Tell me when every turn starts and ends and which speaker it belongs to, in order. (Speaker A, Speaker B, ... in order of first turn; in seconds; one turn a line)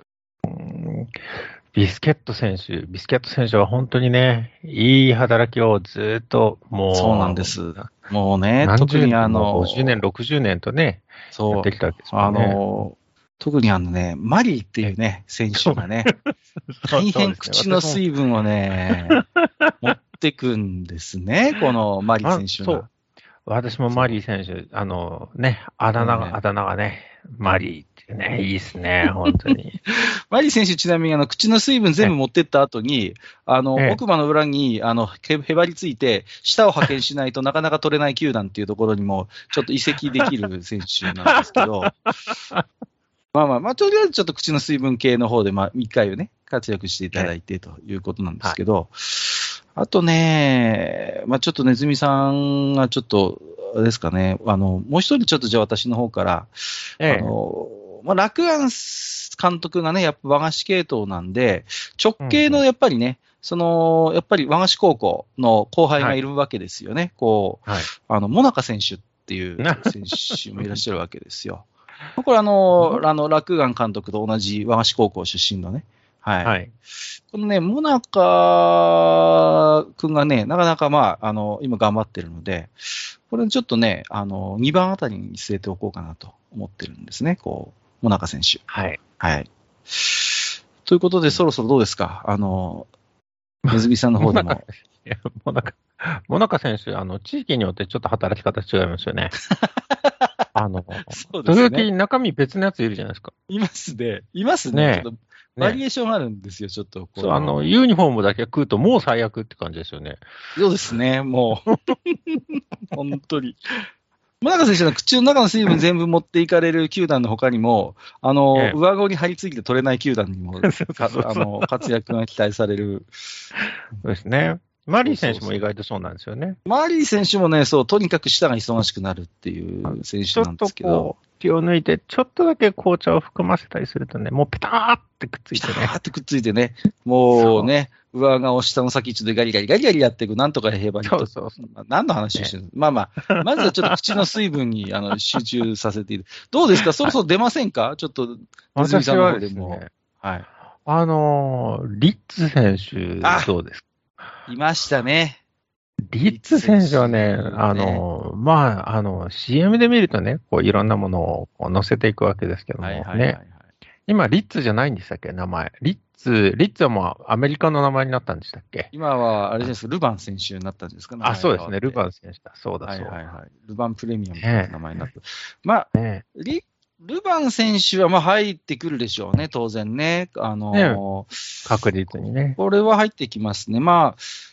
Speaker A: 0.4-7.9
Speaker B: 6.9-10.0
Speaker A: 8.6-12.6
Speaker B: 11.3-16.1
Speaker A: 15.6-18.0
Speaker B: 16.9-19.2
Speaker A: 19.1-19.7
Speaker B: 19.8-22.9
Speaker A: 22.2-22.9
Speaker A: 23.4-29.8
Speaker B: 23.9-24.2
Speaker B: 25.9-26.4
Speaker B: 29.9-41.9
Speaker A: 41.4-42.6
Speaker B: 43.3-76.5
Speaker A: 57.0-57.3
Speaker A: 62.2-62.6
Speaker A: 69.6-70.8
Speaker A: 76.4-76.7
Speaker B: 77.3-88.6
Speaker A: 88.7-89.0
Speaker B: 89.2-90.3
Speaker B: 90.8-92.9
Speaker A: 93.7-99.3
Speaker B: 93.7-94.6
Speaker B: 99.5-100.1
Speaker A: 100.5-103.3
Speaker B: 101.1-101.9
Speaker B: 103.5-107.6
Speaker A: 104.7-105.8
Speaker A: 107.2-110.2
Speaker B: 110.5-113.6
Speaker B: 114.4-123.1
Speaker A: 120.6-121.8
Speaker A: 124.0-126.6
Speaker B: 125.0-125.6
Speaker B: 126.7-131.1
Speaker A: 129.9-135.9
Speaker B: 135.5-150.5
Speaker A: 137.3-137.7
Speaker A: 141.0-141.6
Speaker A: 143.3-144.2
Speaker A: 148.8-149.9
Speaker A: 150.8-153.8
Speaker B: 153.2-153.5
Speaker B: 154.5-155.4
Speaker A: 156.0-163.4
Speaker B: 156.3-158.0
Speaker B: 162.8-163.6
Speaker A: 164.1-168.9
Speaker B: 168.9-172.0
Speaker A: 171.2-173.2
Speaker B: 172.8-181.6
Speaker A: 174.4-175.0
Speaker A: 175.9-176.2
Speaker A: 180.7-181.0
Speaker A: 181.6-182.6
Speaker B: 182.6-184.3